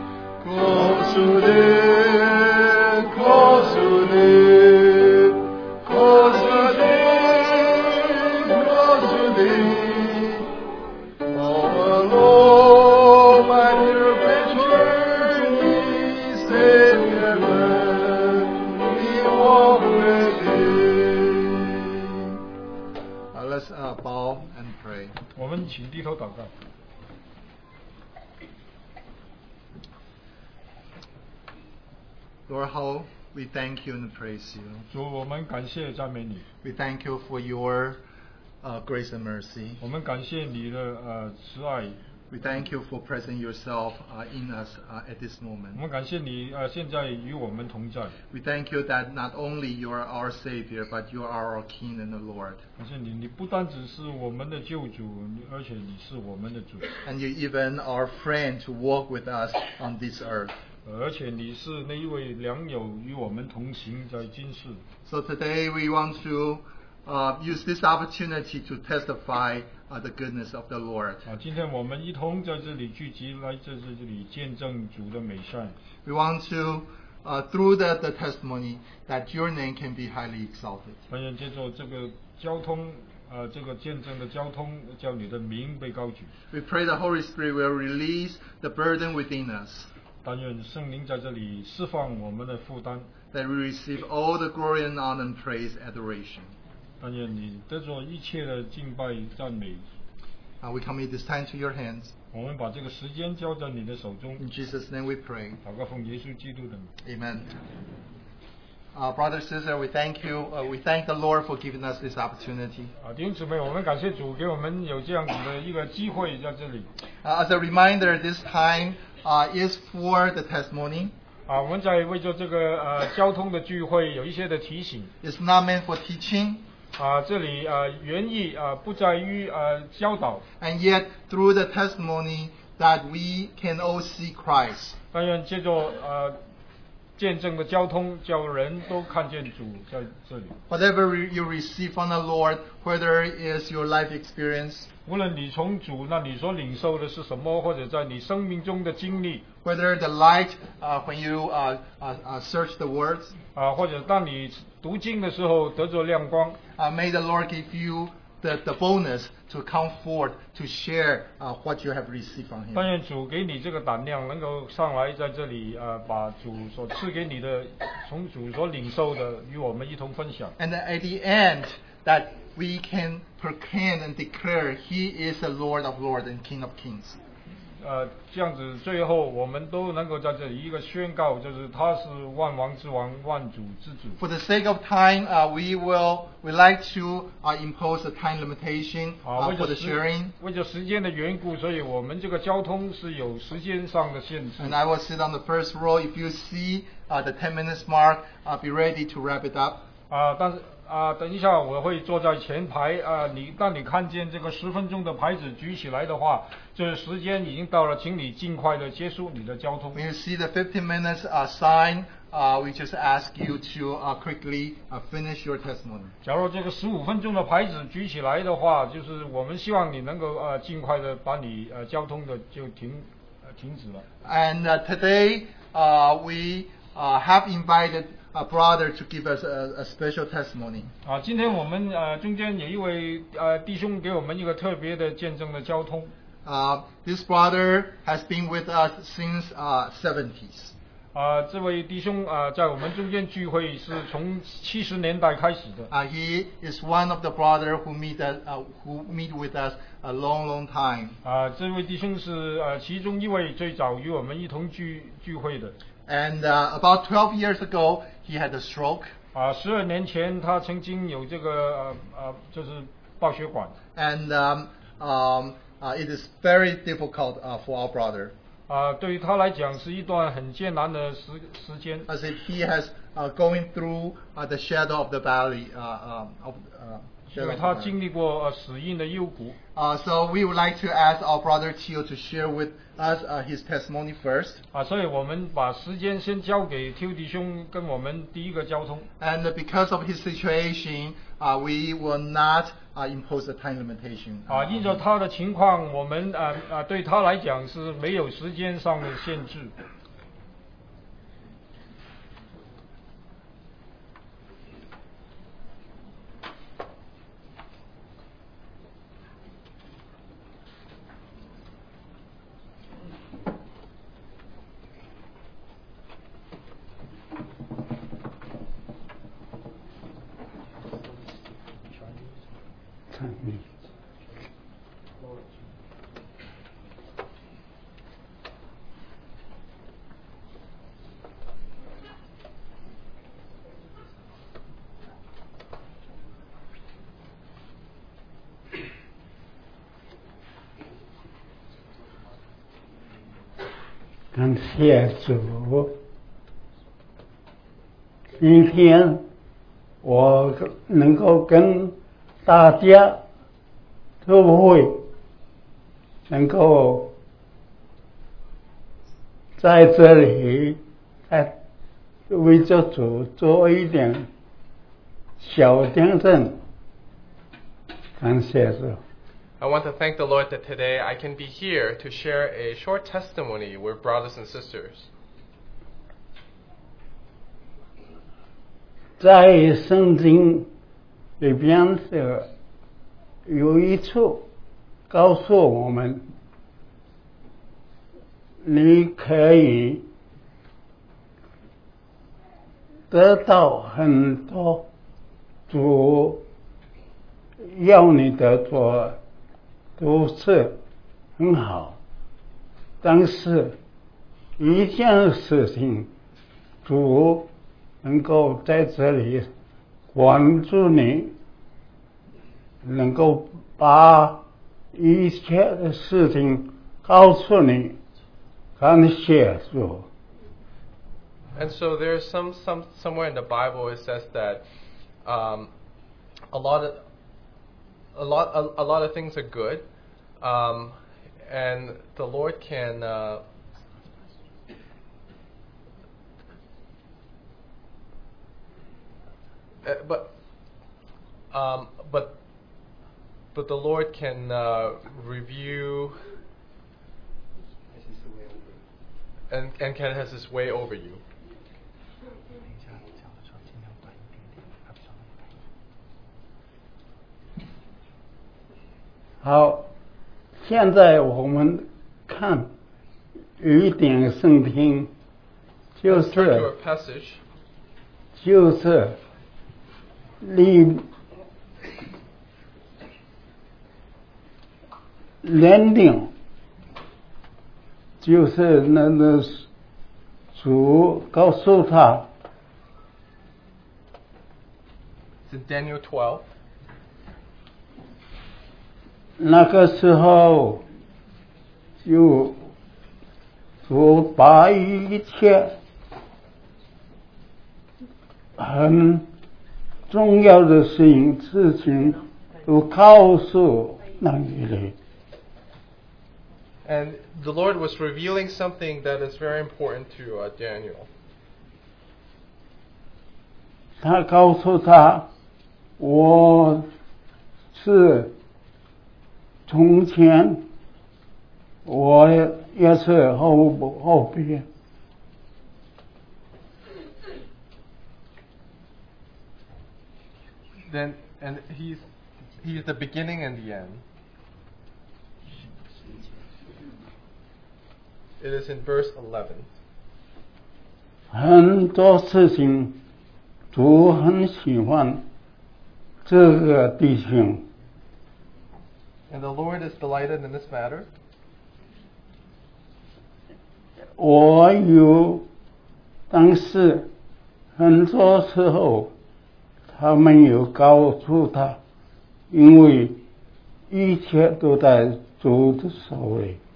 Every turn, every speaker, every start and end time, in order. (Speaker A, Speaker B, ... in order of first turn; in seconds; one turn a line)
Speaker A: 0.4-10.5
Speaker A: 11.3-22.1
Speaker A: 23.3-25.2
Speaker B: 25.4-26.5
Speaker A: 32.5-34.9
Speaker B: 34.9-36.5
Speaker A: 36.6-38.0
Speaker A: 38.6-39.8
Speaker B: 39.8-42.0
Speaker A: 42.3-45.8
Speaker B: 45.7-48.1
Speaker A: 48.3-52.6
Speaker B: 52.8-56.9
Speaker A: 57.0-60.5
Speaker B: 60.9-64.8
Speaker A: 65.0-71.2
Speaker B: 71.3-75.8
Speaker A: 76.0-81.0
Speaker B: 81.1-86.3
Speaker A: 86.5-89.9
Speaker B: 90.2-93.1
Speaker A: 93.3-96.5
Speaker B: 97.0-99.9
Speaker A: 100.6-102.1
Speaker B: 102.3-104.4
Speaker A: 104.4-105.6
Speaker B: 105.6-106.9
Speaker A: 107.0-107.5
Speaker A: 108.9-112.9
Speaker B: 113.0-116.9
Speaker A: 117.2-121.1
Speaker B: 121.5-125.1
Speaker A: 125.2-126.7
Speaker B: 127.0-130.4
Speaker A: 130.6-135.0
Speaker B: 135.1-136.4
Speaker B: 137.2-140.6
Speaker A: 140.7-144.9
Speaker B: 145.1-149.5
Speaker A: 149.6-153.4
Speaker B: 153.6-156.6
Speaker A: 156.8-162.9
Speaker B: 162.7-170.6
Speaker A: 170.6-177.2
Speaker B: 177.8-184.2
Speaker A: 184.2-190.3
Speaker B: 189.2-194.8
Speaker A: 194.6-199.8
Speaker B: 200.1-210.0
Speaker A: 209.9-216.2
Speaker B: 216.2-224.1
Speaker A: 224.2-230.9
Speaker B: 231.0-236.1
Speaker A: 236.4-240.8
Speaker B: 241.1-245.9
Speaker A: 245.9-251.2
Speaker B: 251.2-255.8
Speaker A: 256.1-259.1
Speaker B: 259.3-263.8
Speaker A: 263.9-268.3
Speaker B: 268.7-272.1
Speaker A: 272.1-277.9
Speaker B: 277.3-279.6
Speaker A: 279.8-284.6
Speaker B: 284.7-289.1
Speaker A: 289.2-295.0
Speaker B: 294.5-299.7
Speaker C: 323.1-323.6
Speaker C: 344.3-345.9
Speaker C: 348.4-349.2
Speaker C: 350.0-353.2
Speaker C: 354.2-355.1
Speaker C: 356.3-357.1
Speaker C: 359.6-361.6
Speaker C: 362.3-364.3
Speaker C: 365.4-366.6
Speaker C: 368.2-369.0
Speaker D: 369.6-375.1
Speaker C: 379.2-380.7
Speaker C: 381.4-382.5
Speaker C: 383.5-384.5
Speaker C: 385.1-386.2
Speaker C: 388.6-390.1
Speaker C: 393.1-394.9
Speaker C: 395.7-396.4
Speaker C: 397.6-399.2
Speaker C: 400.0-400.8
Speaker C: 401.4-402.0
Speaker C: 403.0-403.8
Speaker C: 404.6-406.1
Speaker C: 406.8-407.5
Speaker C: 408.0-409.5
Speaker C: 410.1-411.3
Speaker C: 412.8-418.0
Speaker C: 418.8-420.1
Speaker D: 421.5-424.6
Speaker D: 425.2-425.7
Speaker D: 426.5-427.0
Speaker D: 428.1-429.9
Speaker D: 430.4-433.4
Speaker D: 439.8-440.3
Speaker D: 441.5-442.4
Speaker D: 443.5-446.2
Speaker D: 449.5-451.2
Speaker C: 459.4-459.9
Speaker C: 460.6-462.7
Speaker C: 463.6-465.1
Speaker C: 466.0-466.7
Speaker D: 466.1-467.4
Speaker C: 468.4-469.2
Speaker C: 470.4-471.1
Speaker C: 475.4-476.3
Speaker C: 478.2-479.7
Speaker C: 480.5-482.3
Speaker D: 485.5-486.5
Speaker C: 489.4-490.8
Speaker C: 492.1-492.6
Speaker C: 493.9-495.8
Speaker C: 498.6-499.3
Speaker C: 500.1-505.0
Speaker D: 506.9-511.1
Speaker C: 514.0-515.3
Speaker C: 516.0-516.9
Speaker C: 517.7-518.3
Speaker C: 519.7-520.7
Speaker C: 521.9-524.7
Speaker D: 530.9-532.0
Speaker D: 532.6-534.0
Speaker D: 538.4-539.7
Speaker C: 541.3-543.0
Speaker C: 543.7-545.2
Speaker C: 546.2-547.7
Speaker D: 549.3-551.1
Speaker C: 554.2-555.5
Speaker C: 556.3-557.1
Speaker C: 557.8-559.1
Speaker C: 559.9-561.8
Speaker C: 562.5-563.2
Speaker C: 563.9-566.6